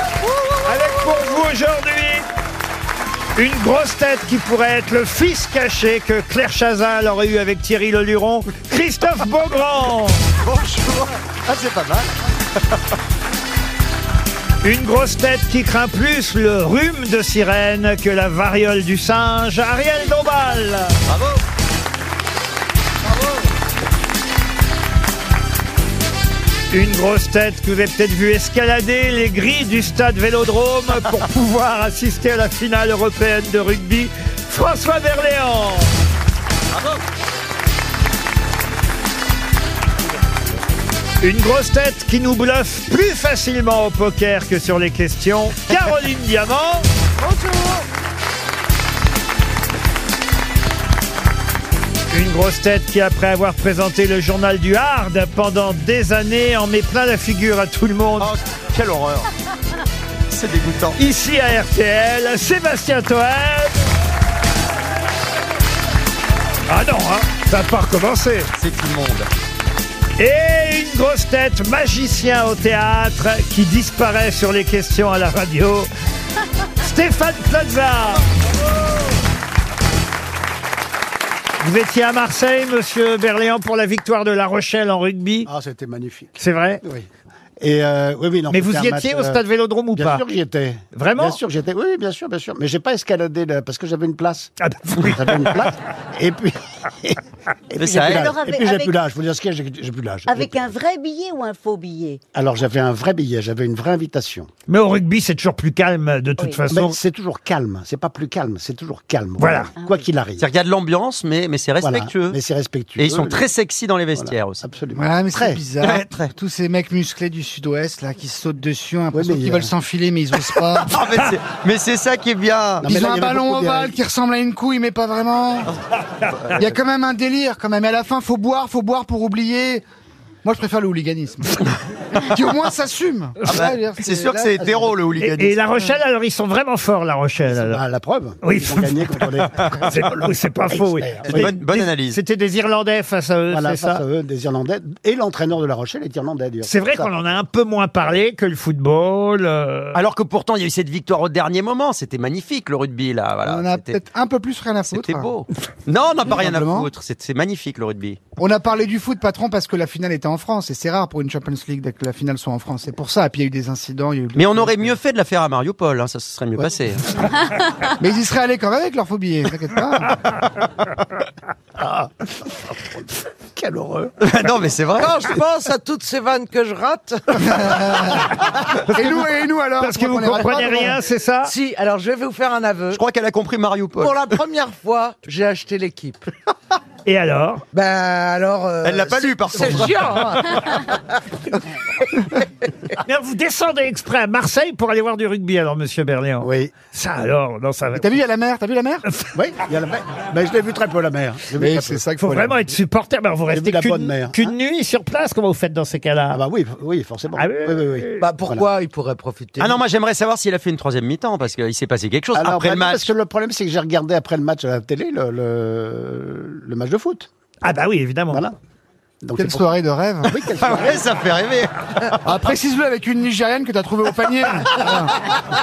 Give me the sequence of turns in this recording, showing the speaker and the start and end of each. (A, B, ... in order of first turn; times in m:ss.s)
0:00.6-0:02.3 A
0:03.4-0:10.2 A
0:10.4-0:12.8 B
0:14.6-0:21.0 A
0:21.1-0:21.4 B
0:26.7-0:35.9 A
0:41.2-0:46.9 A
0:47.2-0:47.8 C
0:52.1-0:58.3 A
0:58.2-0:59.3 B
1:00.3-1:01.0 B
1:01.0-1:03.8 A
1:06.7-1:08.5 A
1:08.6-1:09.3 B
1:10.2-1:15.9 A
1:16.8-1:18.2 A
1:21.6-1:25.5 A
1:25.5-1:27.1 D
1:26.4-1:26.8 A
1:27.6-1:37.2 D
1:28.5-1:30.2 A
1:30.9-1:31.4 A
1:34.6-1:35.6 A
1:37.7-1:40.8 D
1:37.8-1:38.3 B
1:38.0-1:39.0 E
1:40.3-1:42.2 E
1:42.3-1:44.5 D
1:44.7-1:47.0 A
1:46.7-1:50.5 D
1:49.4-1:49.7 A
1:49.8-1:50.0 E
1:50.4-1:52.4 B
1:51.8-1:53.5 D
1:53.0-1:54.6 B
1:54.2-1:55.6 D
1:54.9-2:01.0 F
1:55.8-1:56.3 B
1:59.1-1:59.7 D
2:00.8-2:02.9 B
2:02.8-2:04.0 D
2:02.8-2:05.7 F
2:06.5-2:06.8 B
2:06.5-2:09.8 F
2:10.4-2:11.6 F
2:12.1-2:14.8 F
2:13.5-2:15.6 B
2:15.2-2:17.8 A
2:17.4-2:21.6 D
2:18.4-2:24.0 A
2:21.3-2:22.2 B
2:23.5-2:27.1 D
2:26.6-2:30.0 A
2:30.0-2:34.0 B
2:33.4-2:35.3 F
2:34.9-2:38.2 B
2:36.3-2:36.9 F
2:38.4-2:44.9 F
2:44.4-2:47.1 B
2:48.0-2:50.2 F
2:51.8-2:52.1 D
2:53.6-2:54.2 D
2:54.2-2:55.3 B
2:55.0-2:57.9 C
2:57.3-3:01.0 F
2:59.8-3:01.5 A
3:01.4-3:03.0 C
3:02.9-3:04.4 B
3:04.0-3:06.3 C
3:07.1-3:07.6 A
3:07.7-3:10.6 C
3:08.8-3:10.5 B
3:13.0-3:18.2 A
3:16.4-3:16.7 D
3:18.0-3:19.0 F
3:19.1-3:19.3 A
3:19.3-3:22.0 D
3:21.6-3:22.7 F
3:22.2-3:26.4 A
3:23.5-3:24.6 D
3:26.3-3:28.7 D
3:27.4-3:28.2 A
3:28.2-3:29.8 C
3:29.6-3:33.1 B
3:32.3-3:37.3 D
3:37.6-3:38.4 A
3:38.3-3:38.6 D
3:39.2-3:39.7 D
3:39.4-3:40.4 F
3:40.2-3:41.1 D
3:40.6-3:42.4 B
3:42.2-3:45.4 F